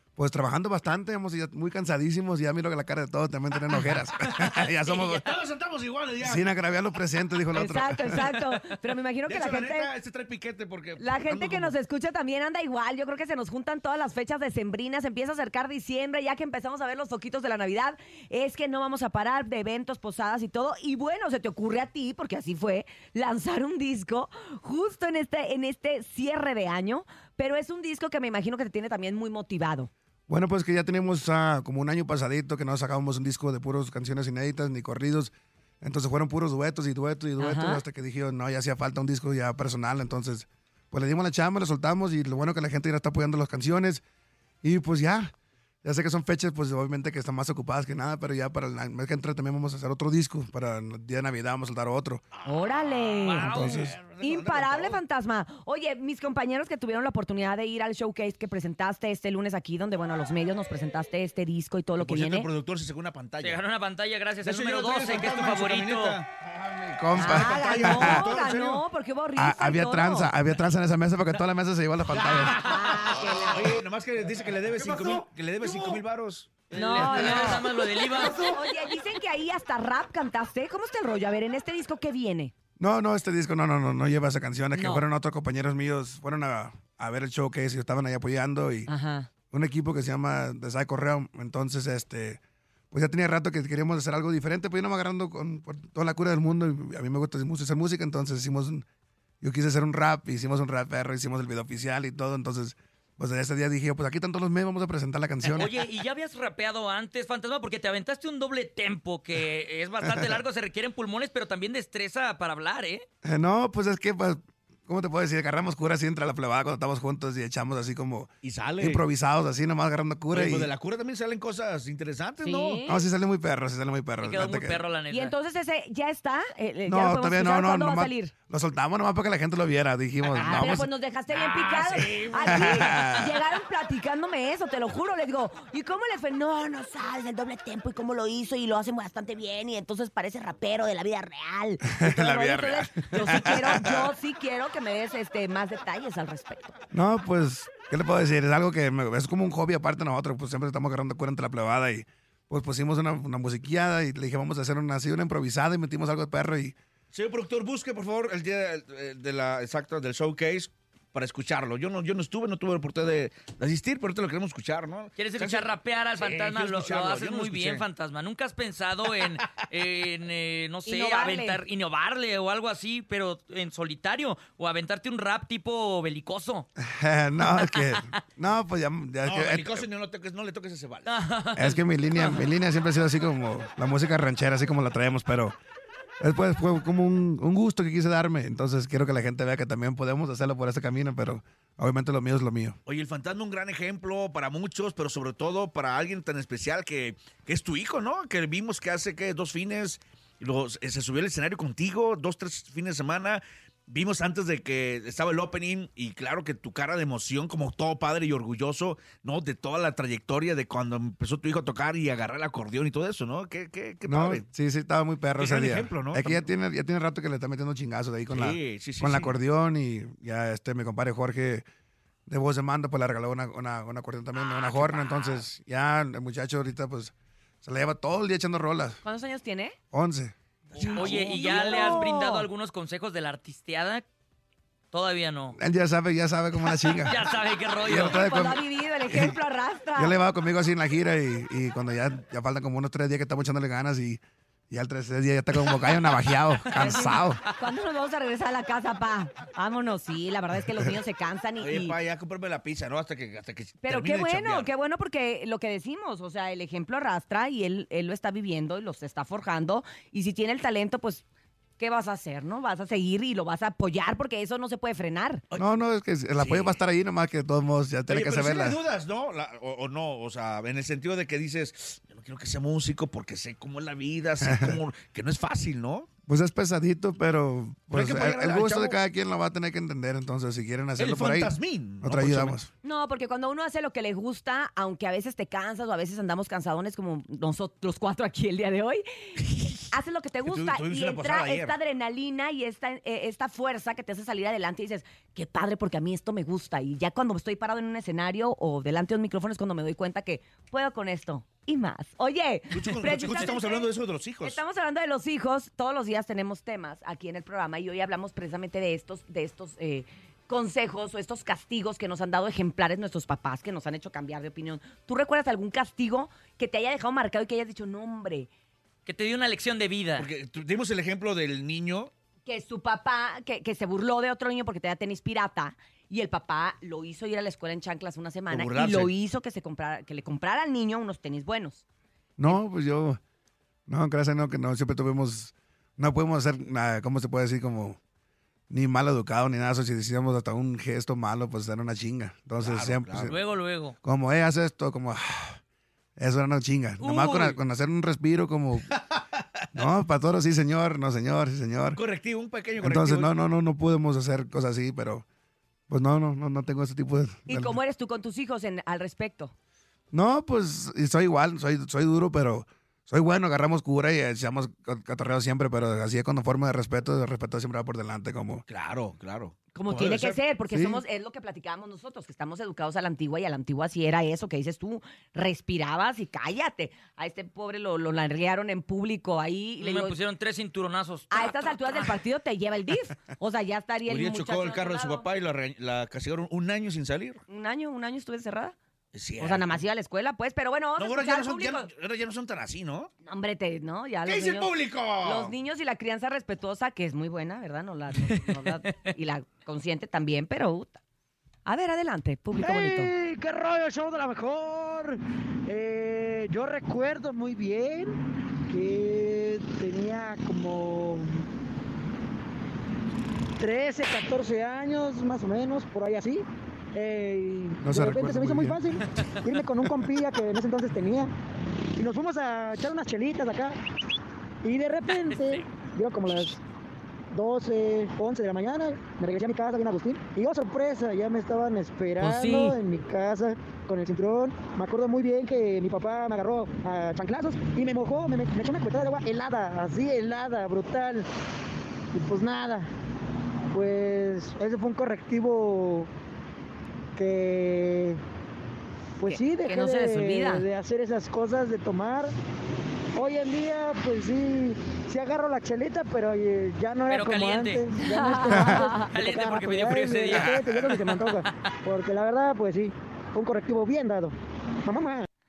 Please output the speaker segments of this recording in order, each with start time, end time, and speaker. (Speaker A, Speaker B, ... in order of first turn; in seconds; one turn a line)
Speaker A: 0.2-5.3
Speaker B: 3.7-4.4
Speaker C: 4.9-6.5
Speaker A: 6.2-8.4
Speaker D: 7.5-9.9
Speaker C: 9.2-11.8
Speaker D: 11.0-29.9
Speaker A: 30.3-44.0
Speaker D: 37.4-37.8
Speaker A: 44.6-45.3
Speaker A: 45.8-52.2
Speaker D: 52.4-62.5
Speaker C: 52.6-53.1
Speaker B: 53.2-53.9
Speaker A: 53.4-54.0
Speaker C: 53.8-55.0
Speaker C: 62.0-63.6
Speaker B: 63.4-66.2
Speaker C: 64.4-66.3
Speaker A: 66.4-68.3
Speaker D: 67.1-70.3
Speaker C: 67.3-68.8
Speaker A: 69.3-73.0
Speaker D: 72.5-73.8
Speaker C: 73.5-77.6
Speaker B: 76.7-78.4
Speaker D: 76.7-82.5
Speaker A: 82.8-88.9
Speaker D: 84.7-85.0
Speaker D: 88.9-89.3
Speaker A: 89.5-92.4
Speaker A: 92.9-98.8
Speaker A: 99.4-105.8
Speaker B: 105.4-113.0
Speaker A: 110.0-110.4
Speaker A: 113.2-120.7
Speaker C: 118.4-119.0
Speaker C: 120.3-122.8
Speaker D: 122.4-123.0
Speaker A: 122.8-124.8
Speaker B: 124.2-125.3
Speaker D: 125.1-128.3
Speaker A: 126.8-130.9
Speaker C: 130.3-130.6
Speaker D: 130.3-146.7
Speaker C: 131.5-133.0
Speaker A: 132.4-133.4
Speaker A: 141.8-144.1
Speaker B: 143.1-143.6
Speaker A: 146.9-156.8
Speaker C: 157.1-167.8
Speaker B: 165.2-176.7
Speaker C: 169.1-169.4
Speaker D: 170.8-171.6
Speaker A: 176.8-179.9
Speaker B: 177.5-178.1
Speaker C: 179.2-181.1
Speaker B: 181.1-182.4
Speaker A: 181.5-185.6
Speaker A: 186.2-192.8
Speaker C: 192.8-214.4
Speaker A: 214.0-221.6
Speaker C: 215.4-216.5
Speaker C: 218.3-219.3
Speaker A: 222.3-229.0
Speaker C: 224.3-225.4
Speaker D: 229.0-229.8
Speaker A: 229.9-230.3
Speaker C: 230.7-232.0
Speaker D: 230.7-232.5
Speaker B: 230.8-234.0
Speaker B: 234.9-235.6
Speaker A: 235.5-237.2
Speaker B: 236.7-238.2
Speaker A: 237.8-239.4
Speaker D: 237.9-240.2
Speaker A: 239.9-247.4
Speaker B: 245.5-247.2
Speaker D: 246.7-251.9
Speaker A: 250.6-251.0
Speaker C: 251.6-254.7
Speaker D: 253.8-261.2
Speaker D: 261.8-265.4
Speaker A: 265.6-268.8
Speaker C: 266.4-266.8
Speaker C: 268.1-276.1
Speaker A: 274.4-274.8
Speaker A: 276.3-282.7
Speaker C: 277.9-279.0
Speaker C: 281.0-282.6
Speaker D: 282.8-303.9
Speaker C: 290.4-291.8
Speaker C: 302.7-304.6
Speaker D: 304.4-318.5
Speaker B: 319.1-320.3
Speaker C: 320.2-322.1
Speaker D: 322.4-331.8
Speaker C: 328.5-329.1
Speaker A: 332.4-333.2
Speaker A: 333.9-338.0
Speaker A: 338.7-343.4
Speaker C: 342.6-343.3
Speaker B: 343.3-343.9
Speaker A: 344.0-345.6
Speaker A: 346.2-348.9
Speaker B: 347.0-347.6
Speaker C: 348.9-349.8
Speaker A: 349.7-352.0
Speaker C: 351.9-353.3
Speaker A: 352.8-355.2
Speaker A: 355.9-357.8
Speaker D: 357.5-359.5
Speaker A: 360.1-368.6
Speaker C: 368.7-370.4
Speaker D: 369.7-380.2
Speaker A: 370.7-371.0
Speaker B: 379.8-382.2
Speaker D: 381.3-385.2
Speaker C: 384.1-387.4
Speaker D: 387.5-388.8
Speaker C: 389.1-389.8
Speaker D: 389.4-391.9
Speaker C: 391.0-393.1
Speaker D: 393.2-401.0
Speaker C: 394.2-395.5
Speaker B: 398.2-398.5
Speaker D: 401.6-403.1
Speaker E: 402.6-408.2
Speaker E: 408.7-411.4
Speaker E: 413.6-421.3
Speaker A: 417.8-418.8
Speaker B: 419.1-419.5
Speaker E: 422.0-423.8
Speaker E: 424.6-426.6
Speaker B: 425.1-425.6
Speaker E: 427.3-441.3
Speaker B: 432.2-432.6
Speaker E: 442.1-442.9
Speaker E: 443.7-446.1
Speaker E: 447.1-448.2
Speaker E: 449.2-452.3
Speaker D: 449.2-450.6
Speaker E: 453.1-465.3
Speaker B: 457.1-457.8
Speaker D: 457.9-459.1
Speaker B: 459.0-461.7